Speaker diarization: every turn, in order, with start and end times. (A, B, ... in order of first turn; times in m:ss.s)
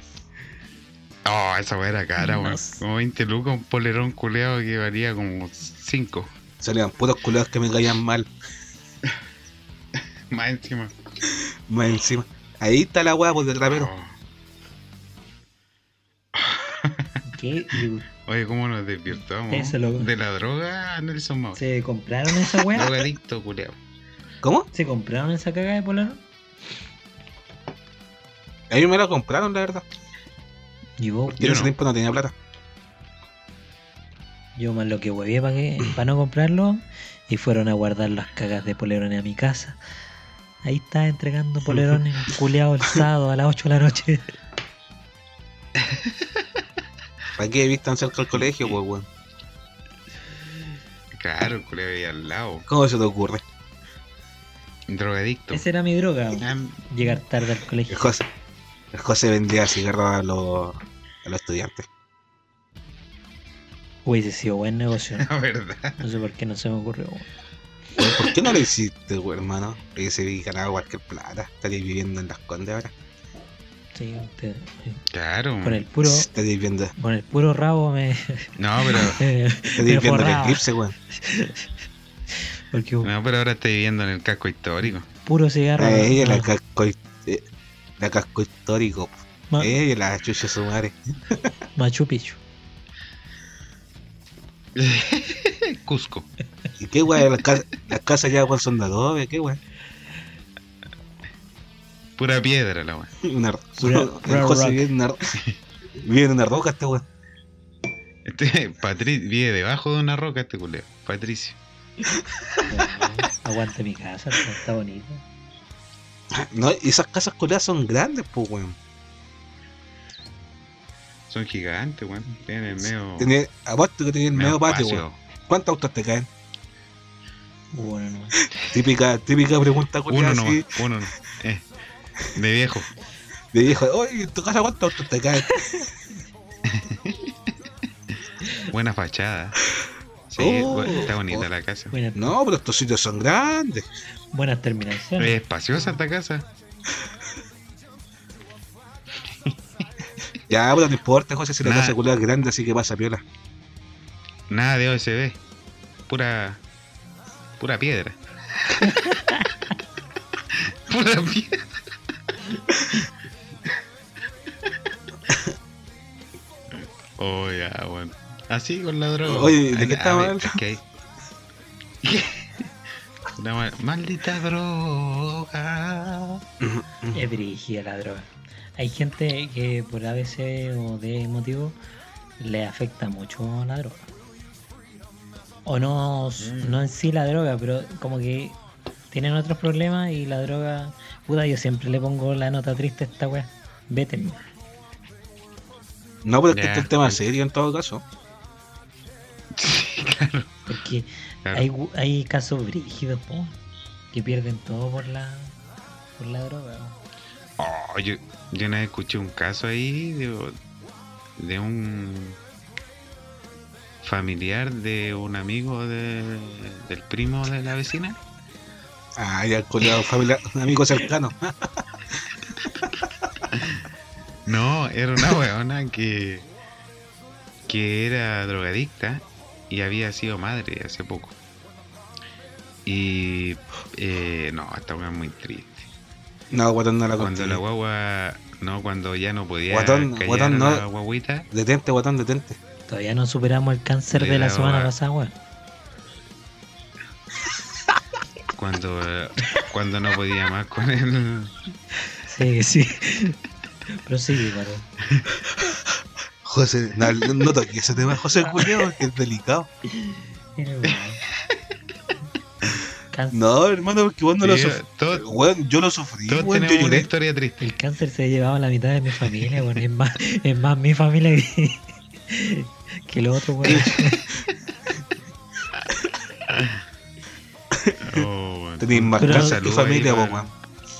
0:01.2-0:06.3 A
0:02.2-0:02.8 B
0:06.6-0:08.3 C
0:10.3-0:11.0 A
0:11.7-0:13.9 C
0:13.7-0:14.1 A
0:16.3-0:17.1 A
0:17.3-0:18.0 B
0:18.2-0:21.6 A
0:19.5-0:20.1 B
0:21.6-0:23.0 B
0:22.7-0:23.8 A
0:24.4-0:24.7 C
0:24.7-0:26.2 B
0:28.7-0:29.8 C
0:31.0-0:31.5 B
0:31.4-0:31.7 A
0:31.4-0:32.3 C
0:34.6-0:39.8 B
0:40.6-0:44.3 B
0:45.8-0:46.2 A
0:47.4-0:49.1 C
0:48.4-0:48.8 A
0:51.1-0:52.7 A
0:52.7-0:53.4 C
0:54.9-0:55.6 A
0:55.5-0:58.2 B
0:56.4-0:56.8 A
0:57.9-0:58.2 C
0:58.9-1:01.9 C
1:04.0-1:05.3 B
1:05.1-1:06.0 A
1:06.0-1:07.3 B
1:08.0-1:12.9 C
1:13.9-1:15.0 B
1:15.1-1:15.8 A
1:15.6-1:16.3 B
1:16.0-1:16.9 C
1:17.0-1:21.7 B
1:18.6-1:19.2 A
1:19.8-1:21.0 C
1:22.7-1:23.1 B
1:23.0-1:25.1 A
1:25.1-1:26.5 B
1:25.8-1:27.4 C
1:28.0-1:31.5 C
1:29.5-1:29.8 B
1:31.8-1:32.4 B
1:34.7-1:36.3 A
1:36.8-1:39.6 C
1:42.2-1:43.1 A
1:43.2-1:45.4 C
1:43.8-1:44.9 B
1:46.0-1:47.0 C
1:48.2-1:51.6 A
1:52.7-1:55.2 B
1:56.3-1:58.8 C
2:01.3-2:03.3 A
2:02.8-2:06.3 C
2:04.3-2:05.2 A
2:07.7-2:08.4 B
2:08.6-2:10.8 C
2:10.1-2:11.6 A
2:12.3-2:12.9 A
2:13.5-2:15.9 C
2:16.7-2:17.2 A
2:18.7-2:19.6 A
2:20.3-2:21.9 A
2:20.4-2:21.5 C
2:21.9-2:22.3 B
2:22.1-2:23.8 C
2:24.3-2:25.4 B
2:25.2-2:26.4 A
2:30.5-2:33.2 C
2:31.6-2:32.0 A
2:34.5-2:35.4 A
2:36.1-2:36.6 A
2:37.6-2:39.2 A
2:40.5-2:41.8 A
2:47.2-2:50.8 A
2:49.2-2:50.6 C
2:52.0-2:52.7 A
2:53.4-2:56.4 A
2:56.6-2:57.2 C
2:57.1-3:01.8 B
3:02.4-3:04.1 B
3:05.6-3:08.6 B
3:06.4-3:06.8 A
3:09.1-3:14.4 B
3:16.2-3:18.0 C
3:16.5-3:17.2 A
3:19.6-3:20.6 A
3:20.7-3:23.6 B
3:24.1-3:25.5 B
3:26.2-3:27.0 B
3:27.6-3:30.6 A
3:31.4-3:32.4 A
3:34.0-3:38.2 A
3:39.2-3:41.8 C
3:43.5-3:43.8 A
3:44.5-3:46.4 A
3:47.7-3:51.3 A
3:52.8-3:55.8 A
3:56.5-3:57.6 C
3:57.2-4:01.5 A
3:59.7-4:00.8 C
4:01.5-4:02.6 C
4:02.9-4:05.3 B
4:04.1-4:04.9 A
4:08.5-4:11.6 A
4:12.1-4:13.4 B
4:14.0-4:14.9 B
4:16.4-4:19.7 C
4:19.9-4:21.2 B
4:23.1-4:23.4 B
4:23.3-4:27.1 C
4:24.4-4:25.3 A
4:26.3-4:27.6 A
4:27.6-4:34.3 B
4:33.7-4:34.0 C
4:36.5-4:36.8 A
4:37.7-4:38.2 C
4:38.0-4:40.5 A
4:38.8-4:40.5 C
4:39.2-4:39.6 B